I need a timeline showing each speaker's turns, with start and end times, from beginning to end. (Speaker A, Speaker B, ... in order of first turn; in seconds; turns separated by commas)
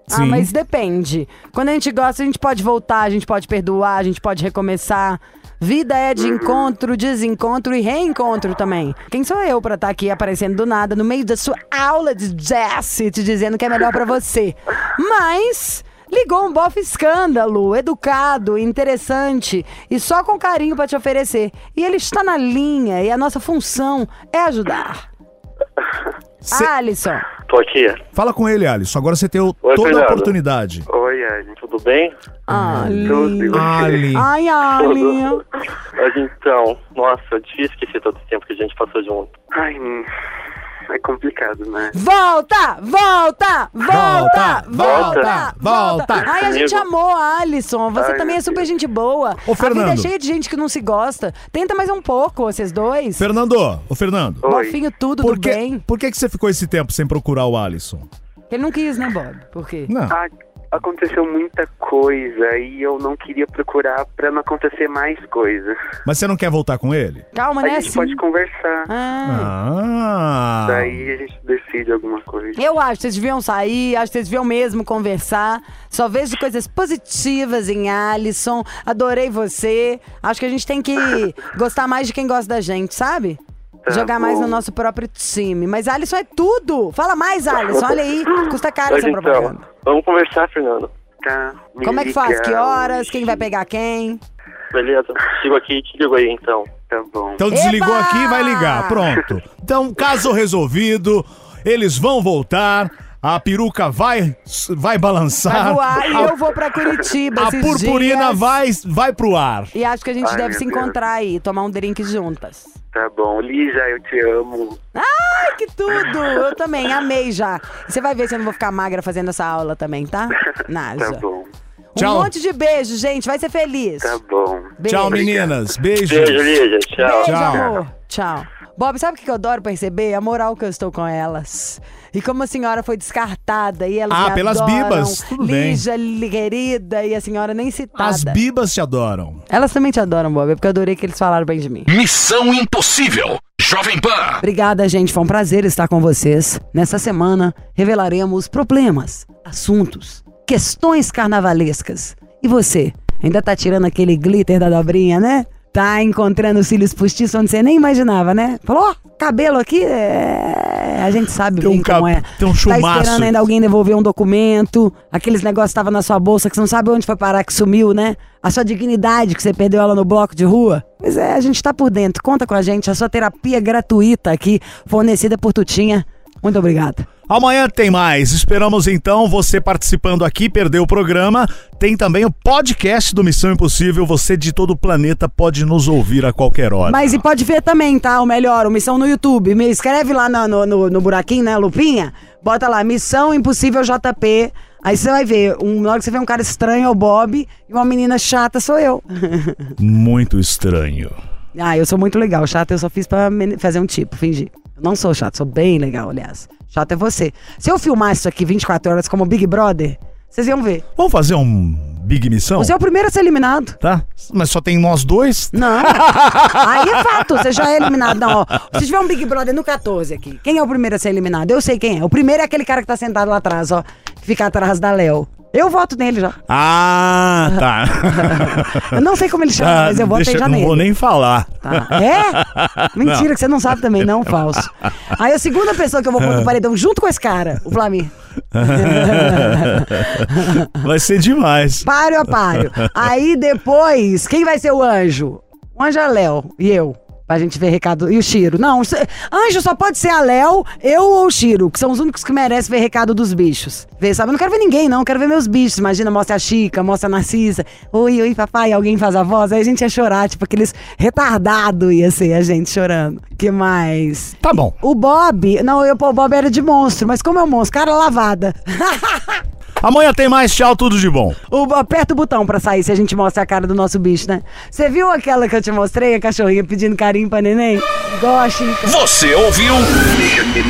Speaker A: 0.1-0.5, Speaker B: 0.1-25.1, Speaker C: 6.2-6.7, Speaker A: 26.4-26.7, Speaker B: 26.5-27.3, Speaker D: 27.5-28.0, Speaker A: 28.1-30.9, Speaker D: 29.6-30.3, Speaker C: 30.9-31.6, Speaker D: 31.6-32.1, Speaker B: 32.5-35.4, Speaker A: 32.5-34.3, Speaker C: 33.0-34.1, Speaker D: 35.8-39.3, Speaker C: 39.5-40.1, Speaker C: 40.9-41.9, Speaker B: 41.9-53.2, Speaker A: 43.8-46.3, Speaker D: 44.8-45.3, Speaker D: 46.2-46.9, Speaker C: 48.0-48.7, Speaker A: 49.5-50.1, Speaker A: 53.2-54.5, Speaker C: 54.4-54.8, Speaker B: 54.4-55.8, Speaker A: 55.2-58.1, Speaker B: 58.5-59.9, Speaker A: 59.9-60.2, Speaker C: 60.1-65.8, Speaker A: 66.0-67.2, Speaker B: 67.3-68.2, Speaker C: 67.6-68.9, Speaker B: 68.9-69.5, Speaker A: 69.3-71.1, Speaker C: 70.7-72.6, Speaker B: 72.6-89.6, Speaker C: 83.8-84.6, Speaker D: 88.9-90.9, Speaker C: 91.2-93.4, Speaker B: 91.8-94.2, Speaker D: 94.7-96.7, Speaker C: 96.9-97.5, Speaker A: 97.4-106.4, Speaker B: 97.5-99.1, Speaker B: 105.5-108.6, Speaker A: 107.3-109.7, Speaker B: 109.7-112.7, Speaker C: 110.2-111.0, Speaker C: 112.9-114.8, Speaker B: 115.0-121.2, Speaker C: 121.0-121.5, Speaker B: 122.0-124.2, Speaker A: 122.0-122.3, Speaker C: 124.0-125.5, Speaker B: 124.8-125.4, Speaker A: 124.8-126.6, Speaker D: 126.0-127.5, Speaker B: 127.0-138.4, Speaker A: 127.2-127.8, Speaker A: 134.1-135.8, Speaker A: 138.0-139.4, Speaker B: 139.5-141.9, Speaker E: 141.9-144.4, Speaker B: 144.4-177.1, Speaker A: 161.6-163.5, Speaker A: 177.3-187.2, Speaker B: 186.9-199.7, Speaker A: 199.8-201.2, Speaker B: 201.6-210.8, Speaker A: 211.0-212.8, Speaker B: 212.6-213.8, Speaker A: 213.8-218.8, Speaker B: 215.5-226.4, Speaker A: 226.5-229.0, Speaker B: 227.5-230.9, Speaker A: 229.6-233.3, Speaker B: 231.6-240.7, Speaker A: 234.0-234.9, Speaker A: 236.2-236.5, Speaker A: 238.5-242.9, Speaker B: 241.8-269.4, Speaker A: 264.4-264.8, Speaker A: 269.8-271.4, Speaker B: 271.5-279.0, Speaker E: 278.9-280.5